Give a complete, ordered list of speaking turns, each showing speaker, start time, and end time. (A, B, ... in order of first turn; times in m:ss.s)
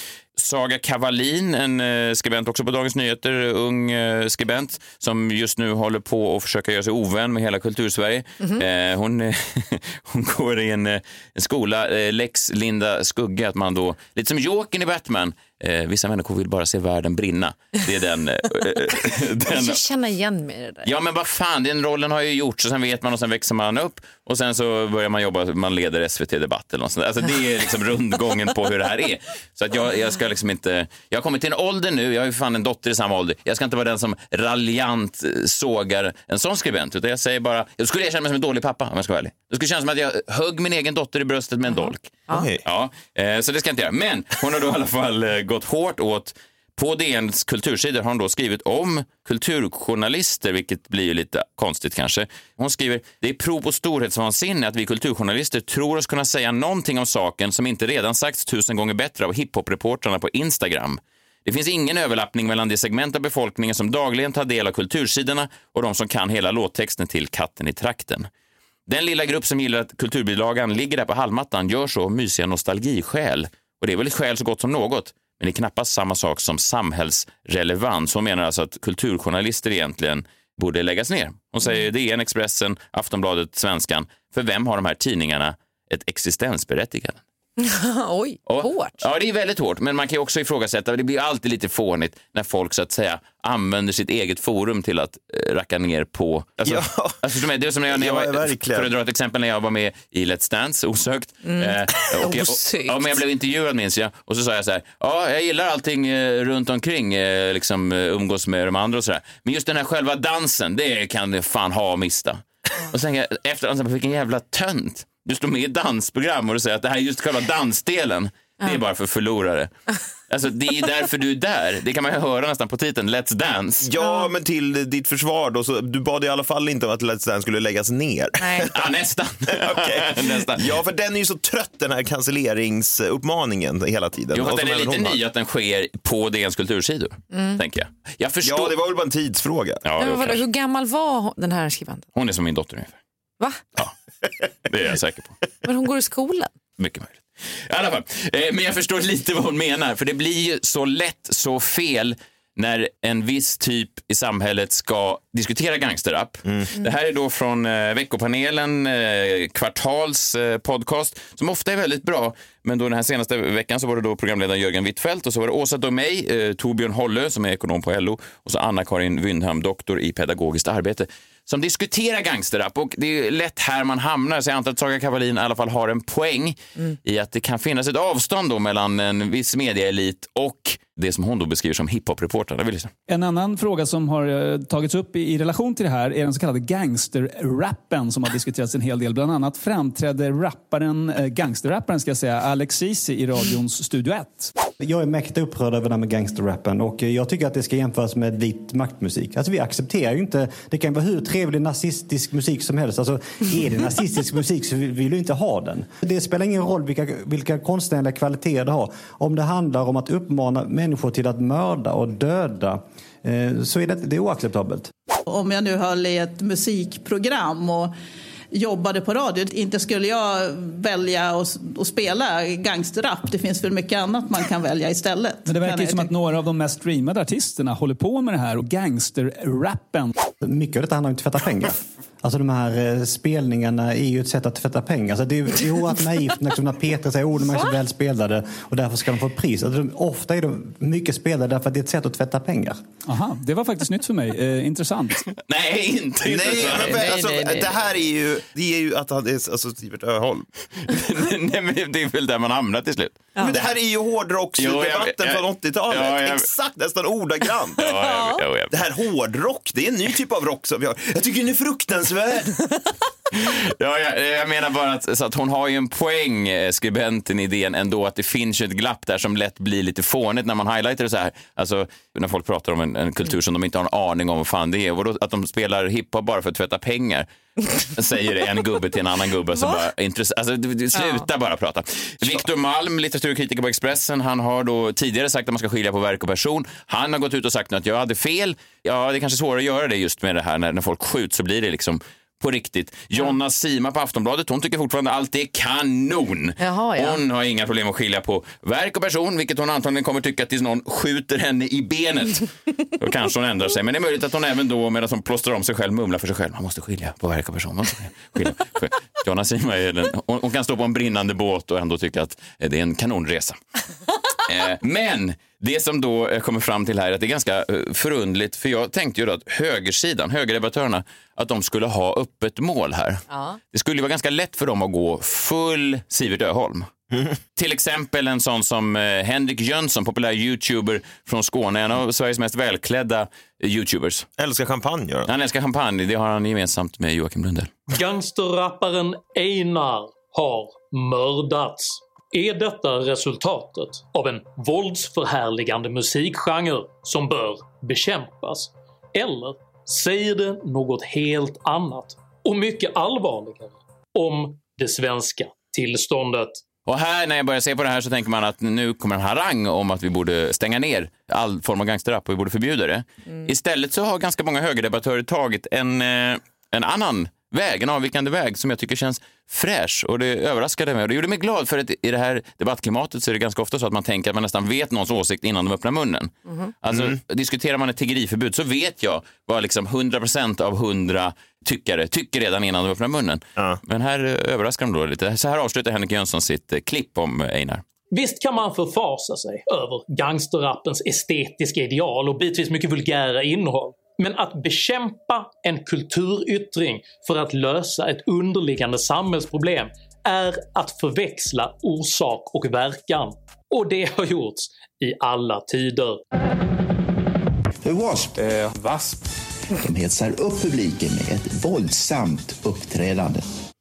0:00.4-0:19.8 A
0:19.4-0:20.9 B
0:20.8-1:08.3 A
0:41.6-0:42.4 B
0:42.3-0:42.6 C
1:08.9-1:27.2 A
1:27.6-1:29.0 B
1:28.5-1:59.7 A
1:36.6-1:37.2 C
1:37.8-1:38.9 C
1:41.4-1:43.2 B
2:00.3-2:03.9 A
2:03.8-2:08.7 C
2:04.0-2:04.3 B
2:08.4-2:08.6 B
2:08.6-2:10.7 A
2:09.5-2:15.2 C
2:14.3-2:18.8 A
2:17.3-2:17.6 B
2:18.4-2:19.8 C
2:19.8-2:20.4 A
2:20.0-2:22.1 B
2:22.1-2:23.0 A
2:24.6-2:25.3 A
2:25.6-2:26.5 B
2:26.8-3:02.9 A
2:36.4-2:36.7 C
3:03.1-3:14.5 D
3:14.8-3:34.9 E
3:35.3-3:37.9 F
3:38.5-3:46.1 F
3:45.5-3:50.1 D
3:50.4-4:02.8 E
4:03.0-4:05.2 D
4:05.3-4:07.2 A
4:06.2-4:10.4 C
4:06.6-4:07.7 B
4:10.8-4:13.6 A
4:13.4-4:18.0 C
4:14.6-4:16.4 A
4:17.8-4:18.8 A
4:18.0-4:18.4 B
4:18.7-4:22.5 C
4:23.3-4:37.3 A
4:37.9-5:02.5 A
4:40.9-4:41.2 B
4:56.6-4:57.2 B
5:03.0-5:13.6 A
5:14.4-5:26.9 A
5:23.3-5:23.6 B
5:27.1-5:27.4 C
5:27.6-5:34.3 A
5:34.4-5:35.3 C
5:35.2-5:37.7 A
5:37.9-5:56.6 G
5:56.8-6:27.8 A
6:16.5-6:16.7 B
6:16.9-6:17.2 C
6:28.1-6:46.2 G
6:47.8-6:49.1 H
6:49.8-6:53.4 H